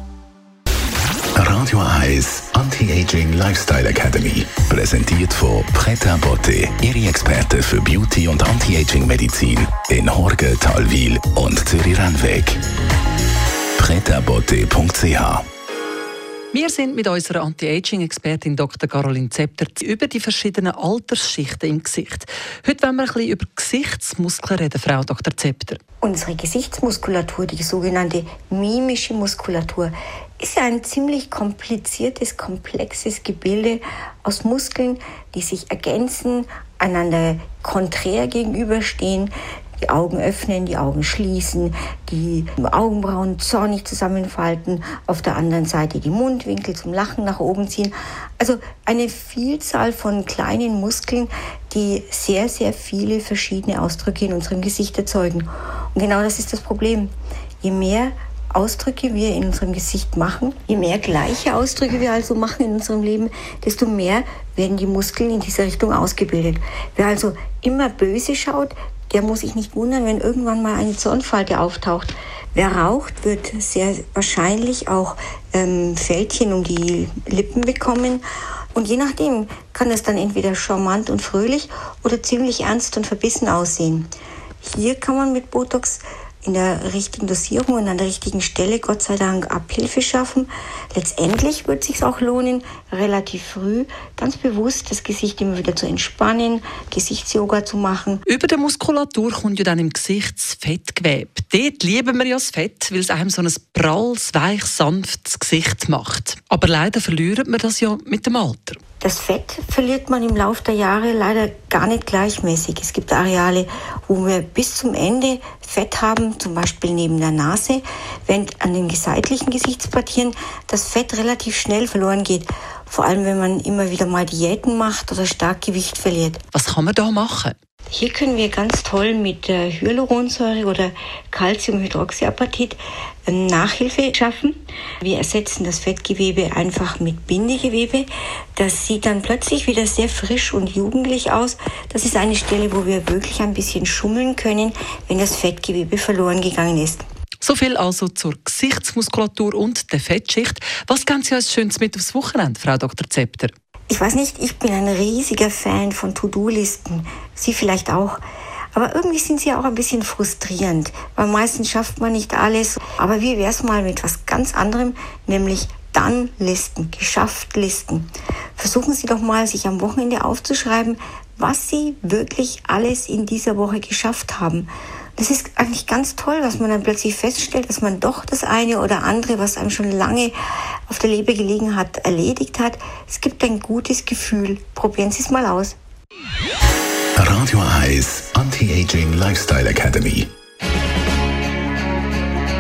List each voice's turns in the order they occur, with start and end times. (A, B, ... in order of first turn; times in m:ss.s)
0:01.4-0:12.6 A
0:13.8-0:15.4 A
0:16.5-0:25.8 B
0:26.0-0:39.3 C
0:39.8-1:18.2 C
1:18.8-1:24.1 C
1:24.7-1:38.2 C
1:38.3-1:48.8 B
1:49.0-2:06.4 C
2:06.5-2:07.6 B
2:07.9-2:27.0 C
2:27.4-2:33.5 B
2:33.9-2:38.2 C
2:38.7-3:00.3 C
3:00.9-3:05.8 C
3:07.2-3:10.3 A